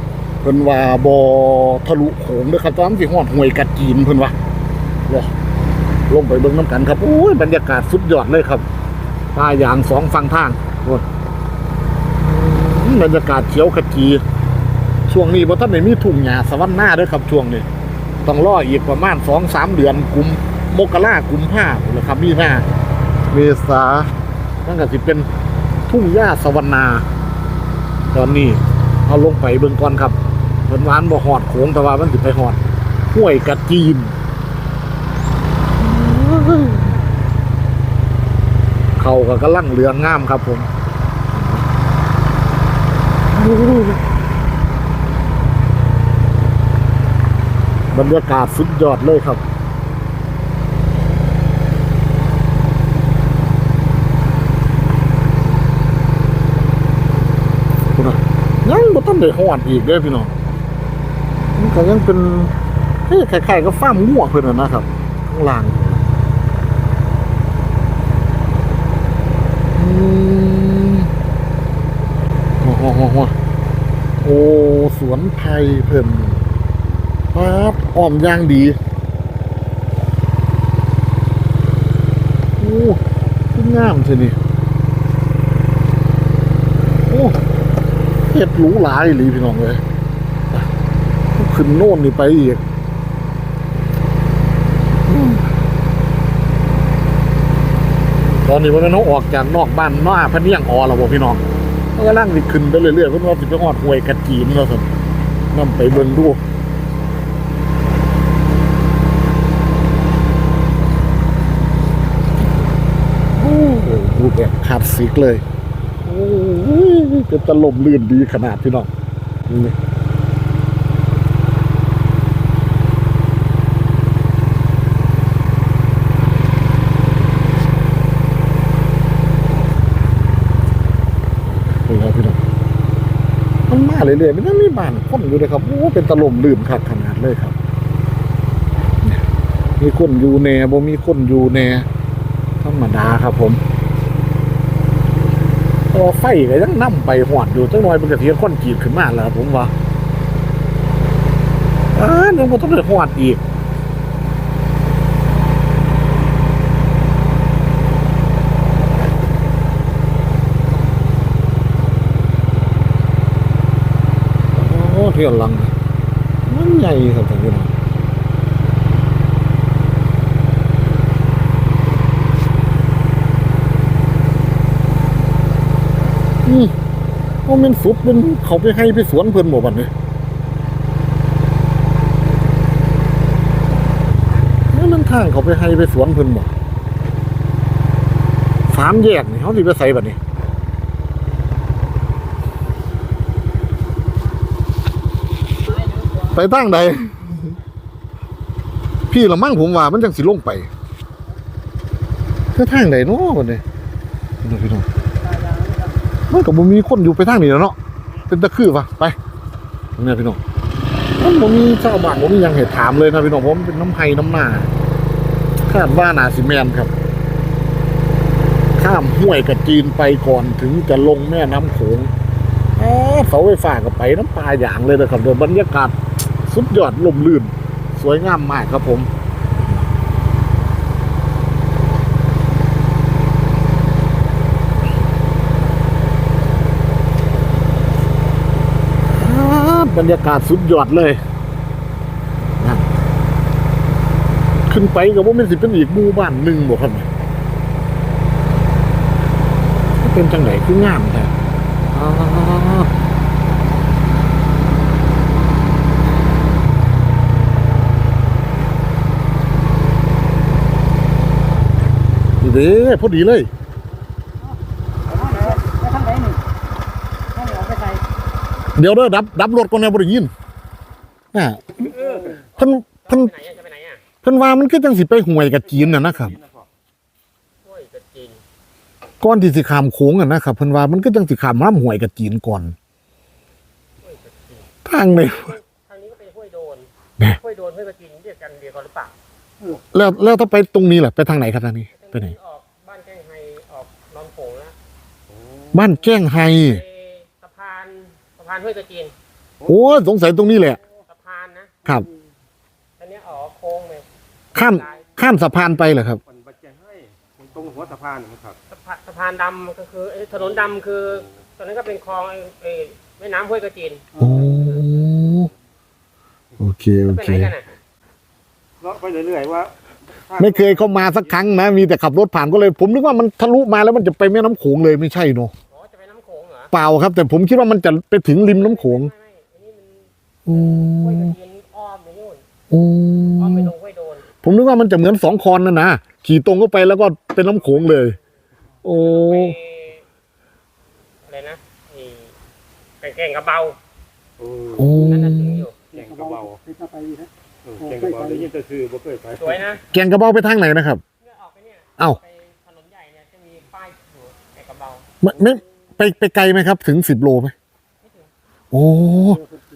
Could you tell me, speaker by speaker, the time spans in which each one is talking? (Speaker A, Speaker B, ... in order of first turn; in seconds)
Speaker A: 0.4-4.3, 6.1-8.7, 9.3-11.1, 12.2-14.2, 15.1-17.6, 18.2-22.6, 23.3-24.1, 24.6-25.3, 25.9-27.1, 28.1-30.1, 30.7-32.6, 33.1-34.1, 35.8-37.0, 39.0-40.7, 41.3-41.6, 43.3-44.0, 47.9-49.4, 57.9-60.3, 61.5-62.5, 63.1-66.0, 69.7-71.1, 72.6-73.3, 74.2-76.4, 77.3-78.8, 82.6-83.0, 83.5-84.4, 87.1-87.4, 88.3-89.8, 91.3-92.6, 95.0-95.4, 98.4-101.4, 101.9-104.9, 105.5-106.4, 113.3-115.4, 116.0-118.9, 119.5-119.7, 131.5-132.4, 133.7-137.6, 139.8-141.9, 142.6-143.6, 145.9-149.7, 151.9-153.4, 164.5-165.7, 166.5-167.7, 176.4-176.7, 177.4-179.9, 184.7-186.5, 188.7-190.2, 196.1-197.5, 199.1-200.7, 202.5-203.6, 204.4-204.8, 206.3-207.8, 208.3-209.2, 210.0-210.4, 211.2-214.7, 215.7-216.9, 218.8-222.1, 222.8-229.1, 239.1-241.2, 242.6-242.9, 244.7-247.1, 250.0-251.3, 251.9-252.9, 262.4-263.5, 268.8-270.3, 271.3-273.3, 274.2-276.4, 279.2-282.7, 284.8-285.5, 289.9-292.3, 295.7-296.8, 299.6-300.8, 304.5-306.2, 314.2-315.5, 316.6-317.5, 320.4-325.5, 326.7-329.1, 330.5-331.3, 332.7-333.7, 334.4-338.1, 338.8-339.6, 344.7-345.7, 349.9-351.0, 355.2-357.5, 358.7-359.4
Speaker B: 205.4-205.9, 265.1-266.4, 267.4-268.0, 345.9-347.3, 347.9-348.4
Speaker C: 273.1-274.0, 277.6-278.4, 284.0-284.7, 285.2-289.1, 291.9-294.7, 296.6-299.1, 301.1-301.7, 303.0-304.1, 304.6-305.1, 308.7-314.9, 317.1-317.7, 325.7-326.7, 328.4-332.4, 333.4-334.2, 338.9-340.0, 341.3-342.3, 343.0-343.8, 344.8-345.8, 349.4-349.8, 351.2-355.1
Speaker D: 275.9-276.6, 306.3-308.6, 318.8-319.7, 320.3-321.2, 344.4-344.8, 345.9-346.6, 347.6-349.6